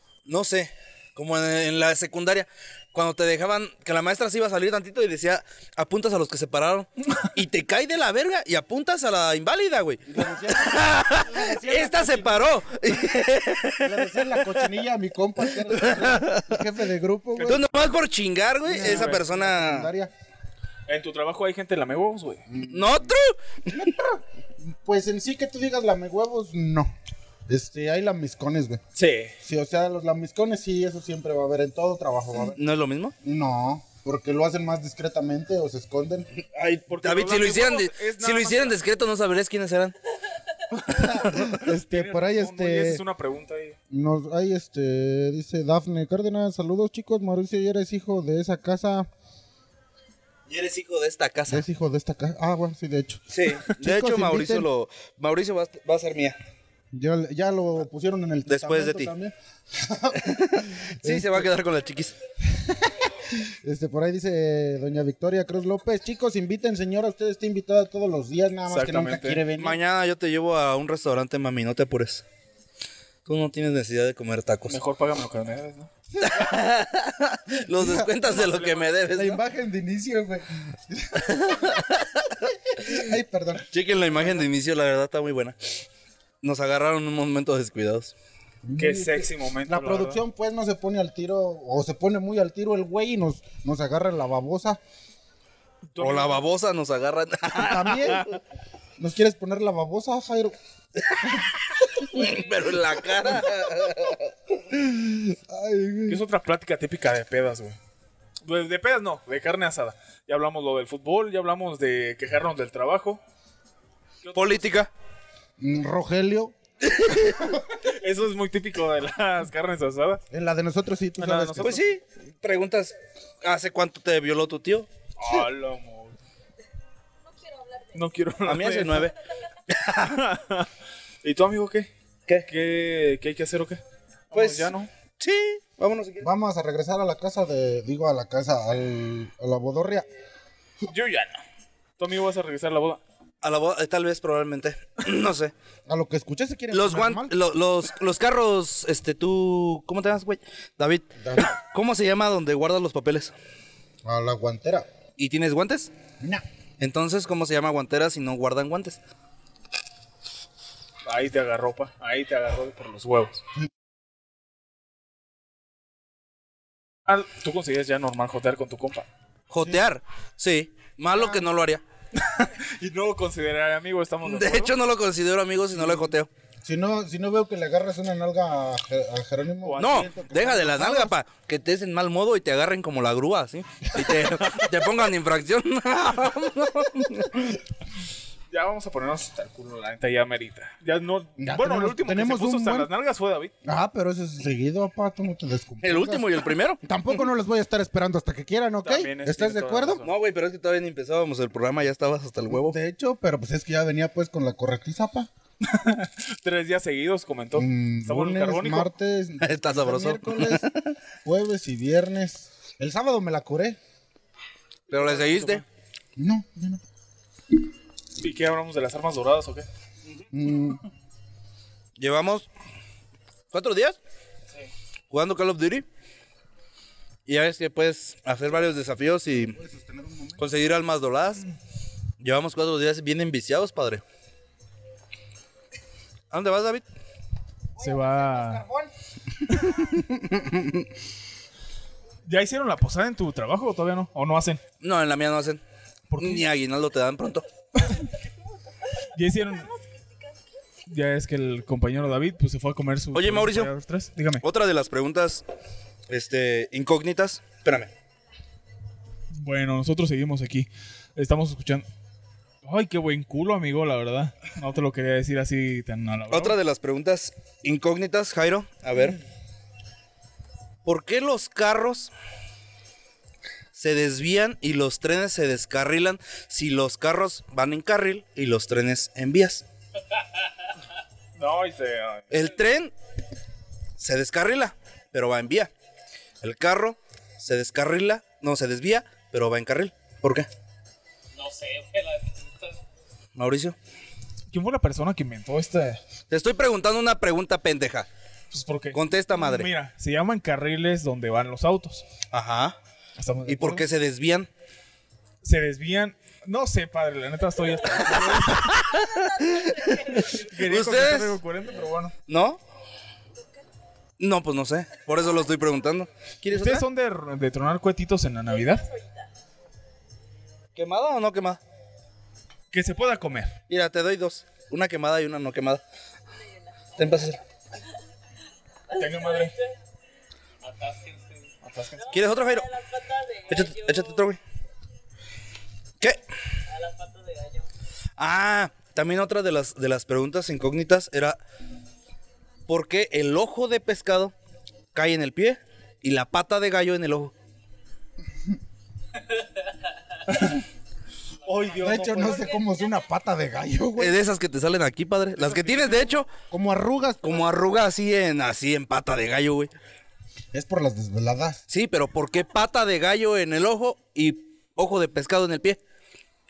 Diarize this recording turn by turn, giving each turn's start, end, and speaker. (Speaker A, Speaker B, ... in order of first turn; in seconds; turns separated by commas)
Speaker A: 0.2-14.6, Speaker B: 10.1-12.5, Speaker B: 13.8-17.7, Speaker A: 15.7-16.6, Speaker A: 17.4-19.9, Speaker B: 18.6-20.1, Speaker C: 18.8-19.2, Speaker C: 20.9-22.4, Speaker B: 22.5-23.2, Speaker A: 22.7-23.8, Speaker B: 23.7-26.9, Speaker B: 27.5-28.8, Speaker C: 28.9-29.3, Speaker B: 29.4-32.6, Speaker A: 32.5-33.1, Speaker B: 33.2-36.3, Speaker A: 36.4-39.9, Speaker C: 36.9-38.8, Speaker B: 40.8-43.0, Speaker A: 41.1-41.5, Speaker C: 41.7-43.8, Speaker B: 43.9-49.1, Speaker A: 50.5-51.6, Speaker B: 51.5-54.7, Speaker A: 53.3-56.4, Speaker B: 56.9-61.5, Speaker A: 58.5-59.1, Speaker A: 60.1-62.1, Speaker B: 62.5-69.8, Speaker C: 68.7-69.4, Speaker A: 69.6-72.2, Speaker A: 73.2-74.8, Speaker C: 74.7-75.9, Speaker A: 76.2-79.4, Speaker B: 77.7-78.2, Speaker C: 78.3-78.9, Speaker B: 79.1-81.8, Speaker A: 81.3-82.9, Speaker B: 82.8-83.7, Speaker A: 83.7-85.5, Speaker A: 86.4-88.1, Speaker B: 88.6-94.8, Speaker C: 88.8-90.2, Speaker C: 95.9-96.4, Speaker A: 96.0-98.4, Speaker B: 97.5-98.3, Speaker B: 99.0-100.5, Speaker A: 101.0-104.3, Speaker B: 103.2-103.5, Speaker B: 104.7-106.2, Speaker C: 106.1-107.8, Speaker C: 108.4-113.2, Speaker C: 114.2-114.8, Speaker A: 114.3-114.9, Speaker B: 115.6-116.5, Speaker A: 116.9-117.2, Speaker C: 117.7-120.2, Speaker B: 120.3-121.8, Speaker C: 121.2-121.8, Speaker A: 121.6-124.9, Speaker C: 125.2-126.2, Speaker D: 127.5-127.8, Speaker C: 127.9-129.1, Speaker A: 128.4-129.2, Speaker C: 129.7-130.7, Speaker C: 131.2-131.9, Speaker C: 132.5-134.9, Speaker A: 134.3-136.3, Speaker B: 136.2-140.1, Speaker C: 140.8-141.4, Speaker C: 142.0-143.0, Speaker A: 143.4-145.5, Speaker B: 145.9-147.3, Speaker A: 146.7-153.3, Speaker B: 151.2-151.5, Speaker B: 154.0-154.9, Speaker A: 155.2-155.9, Speaker A: 156.8-159.0, Speaker C: 161.1-163.4, Speaker C: 167.1-169.1, Speaker A: 169.5-171.8, Speaker B: 171.1-171.5, Speaker C: 172.2-174.7, Speaker A: 174.2-176.3, Speaker B: 175.8-181.2, Speaker C: 179.6-180.1, Speaker A: 179.8-187.5, Speaker C: 188.5-193.5, Speaker B: 191.4-192.9, Speaker B: 193.6-200.0, Speaker A: 195.8-196.8, Speaker C: 198.8-200.1, Speaker A: 200.0-202.8, Speaker B: 202.5-205.3, Speaker C: 205.6-208.9, Speaker B: 207.5-210.7, Speaker A: 209.4-210.8, Speaker B: 211.2-213.8, Speaker A: 214.9-215.6, Speaker C: 214.9-215.6, Speaker B: 216.2-216.8, Speaker C: 218.2-219.7, Speaker B: 220.3-220.8, Speaker A: 222.0-222.5, Speaker A: 223.5-224.0, Speaker A: 225.1-225.8, Speaker A: 227.3-229.6, Speaker B: 229.3-230.5, Speaker A: 230.4-231.4, Speaker A: 232.2-234.0, Speaker A: 236.3-236.8, Speaker B: 237.8-238.9, Speaker C: 237.8-238.6, Speaker C: 242.2-244.6, Speaker A: 244.8-245.6, Speaker C: 246.1-246.4, Speaker A: 246.2-247.4, Speaker C: 249.1-249.7, Speaker D: 249.7-250.0, Speaker C: 250.9-254.4, Speaker A: 253.1-253.7, Speaker A: 254.4-255.4, Speaker A: 256.1-257.9, Speaker C: 259.3-261.9, Speaker C: 262.6-266.6, Speaker A: 266.3-269.2, Speaker A: 270.8-272.1, Speaker A: 273.8-279.6, Speaker C: 281.4-282.4, Speaker A: 282.3-282.9, Speaker A: 284.0-285.7, Speaker A: 286.4-290.5, Speaker E: 291.3-292.8, Speaker A: 293.3-293.8, Speaker C: 294.5-296.0, Speaker A: 296.3-298.1, Speaker C: 298.5-302.0, Speaker A: 298.9-299.7, Speaker A: 302.3-302.8, Speaker C: 303.2-303.8, Speaker A: 303.4-304.5, Speaker C: 305.4-308.8, Speaker A: 307.9-311.4, Speaker D: 309.0-310.4, Speaker C: 310.1-312.1, Speaker A: 312.3-312.6, Speaker A: 314.2-316.9, Speaker C: 316.5-318.8, Speaker D: 318.5-319.3, Speaker A: 320.7-321.6, Speaker C: 322.7-323.5, Speaker A: 323.7-325.8, Speaker D: 326.3-327.0, Speaker A: 326.9-327.4, Speaker D: 328.9-329.8, Speaker C: 328.9-329.5, Speaker E: 330.6-331.5, Speaker C: 331.6-332.1, Speaker D: 331.9-334.4, Speaker A: 332.1-332.7, Speaker A: 333.5-334.4, Speaker D: 336.7-337.7, Speaker A: 338.2-341.4, Speaker A: 342.7-344.3, Speaker A: 344.9-347.3, Speaker E: 351.4-352.3, Speaker C: 351.4-352.5, Speaker B: 351.8-354.2, Speaker D: 352.1-353.1, Speaker A: 354.0-356.3, Speaker C: 355.4-355.9, Speaker B: 356.5-357.4, Speaker A: 357.2-359.7, Speaker B: 360.5-361.6, Speaker A: 361.7-365.8